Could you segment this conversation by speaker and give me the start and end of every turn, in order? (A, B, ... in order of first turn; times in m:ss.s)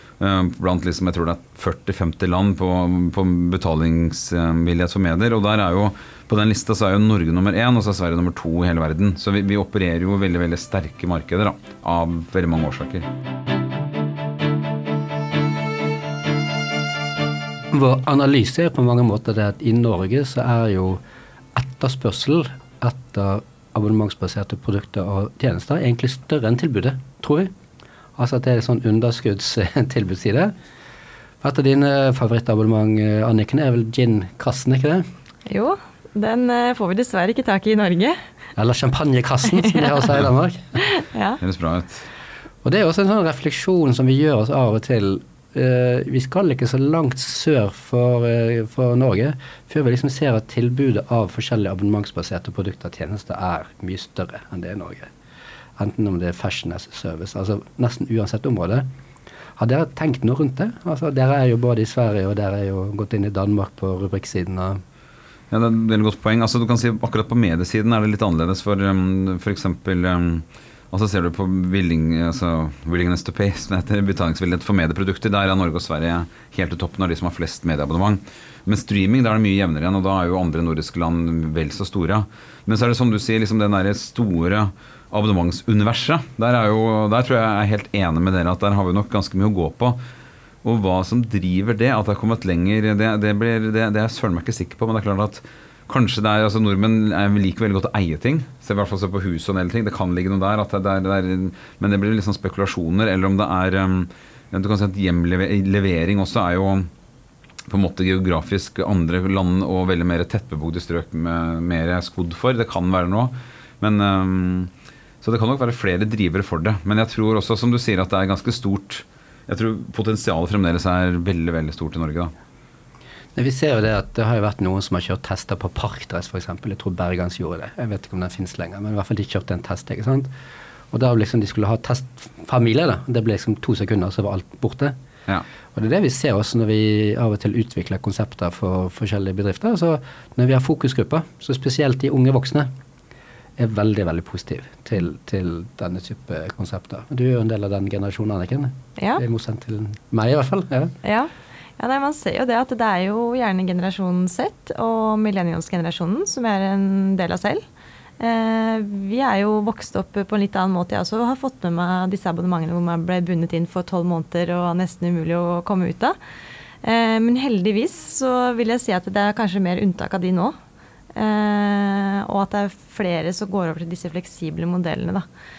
0:00.2-0:13.1 A
0:17.7-0:21.0 B
0:21.5-0:27.5 B
0:28.2-0:30.5 B
0:31.4-0:35.0 B
0:35.5-0:38.2 C
0:38.6-0:40.8 B
0:40.8-0:41.4 C
0:41.4-0:42.1 A
0:42.6-0:55.1 B
0:55.8-0:58.8 B
0:59.6-1:04.8 B
1:05.5-1:30.0 A
1:30.6-1:46.9 A
1:47.7-1:54.7 A
1:55.2-2:02.3 A
2:03.3-2:10.3 B
2:10.9-2:14.9 B
2:15.7-2:22.7 B
2:23.6-2:30.9 B
2:29.0-2:29.2 C
2:31.0-2:37.6 C
2:38.2-2:46.2 C
2:46.8-2:50.6 C
2:51.1-2:55.2 C